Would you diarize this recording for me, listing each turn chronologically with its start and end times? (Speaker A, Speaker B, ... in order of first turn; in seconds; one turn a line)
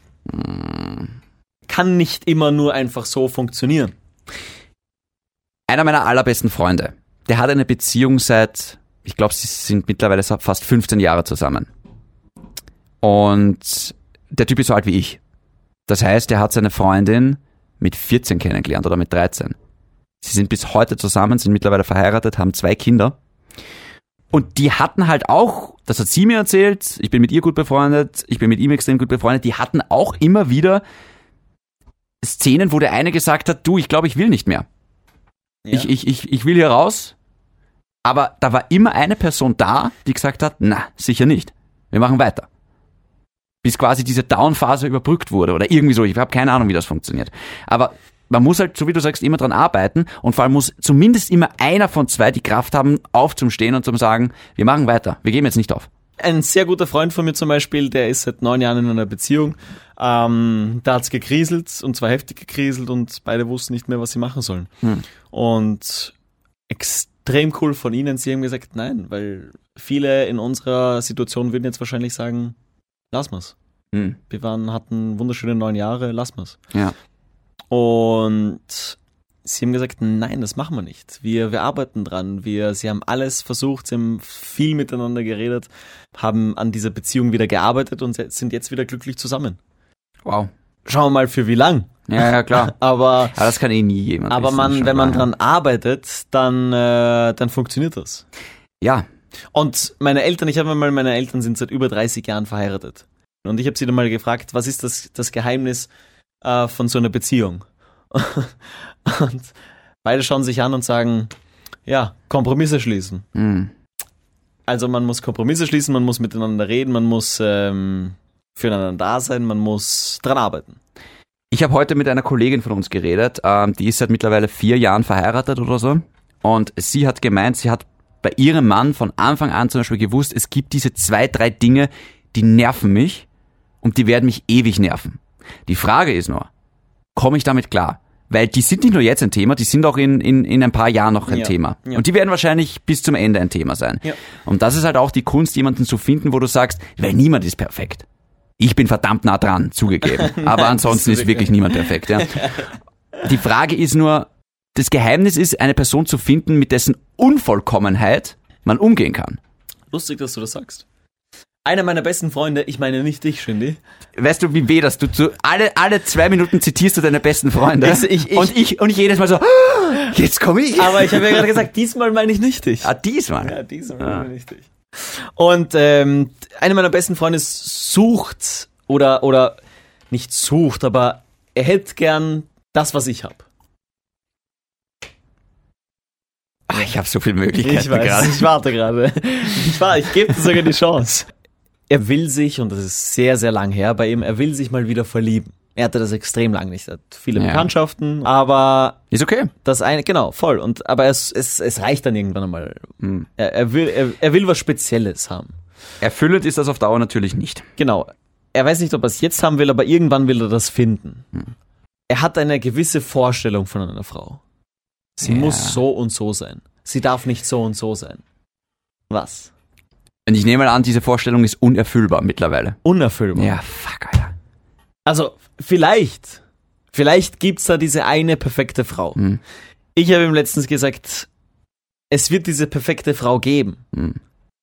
Speaker A: 0.3-1.1
Speaker B: 1.7-4.0
Speaker A: 5.7-11.7
Speaker A: 13.0-15.2
Speaker A: 15.9-19.6
Speaker A: 20.2-23.2
Speaker A: 24.3-30.8
Speaker A: 32.2-34.7
Speaker B: 35.6-35.9
Speaker A: 35.7-37.1
Speaker A: 38.0-42.5
Speaker A: 43.6-55.9
Speaker B: 56.2-64.7
Speaker B: 65.3-66.1
Speaker B: 66.7-72.6
Speaker B: 73.1-73.5
Speaker A: 73.9-74.2
Speaker B: 74.3-76.6
Speaker B: 77.7-89.6
Speaker A: 90.2-90.5
Speaker B: 90.9-93.4
Speaker A: 92.1-92.8
Speaker A: 93.3-95.3
Speaker B: 94.3-98.2
Speaker A: 98.8-99.1
Speaker B: 99.5-105.9
Speaker B: 106.4-111.3
Speaker B: 111.9-113.3
Speaker A: 113.3-113.7
Speaker B: 114.7-120.8
Speaker A: 121.5-133.3
Speaker A: 133.8-136.5
Speaker A: 137.2-148.1
Speaker B: 141.3-142.0
Speaker A: 148.6-152.6
Speaker B: 150.1-152.7
Speaker A: 153.2-159.4
Speaker B: 159.9-160.8
Speaker B: 161.7-163.8
Speaker A: 164.2-171.5
Speaker B: 167.8-168.6
Speaker B: 170.8-172.9
Speaker A: 172.8-174.2
Speaker B: 173.4-183.5
Speaker A: 186.7-188.5
Speaker B: 187.6-191.3
Speaker B: 191.9-199.0
Speaker A: 197.3-197.7
Speaker A: 199.1-199.5
Speaker B: 199.6-205.6
Speaker A: 203.0-203.3
Speaker A: 206.0-207.7
Speaker B: 207.8-211.3
Speaker B: 212.1-214.4
Speaker B: 215.2-218.2
Speaker A: 215.2-215.8
Speaker B: 219.1-219.5
Speaker A: 220.3-222.8
Speaker B: 222.8-223.6
Speaker A: 223.3-224.3
Speaker B: 225.1-226.4
Speaker B: 226.9-229.2
Speaker B: 229.9-231.3
Speaker B: 232.1-233.8
Speaker A: 233.9-234.2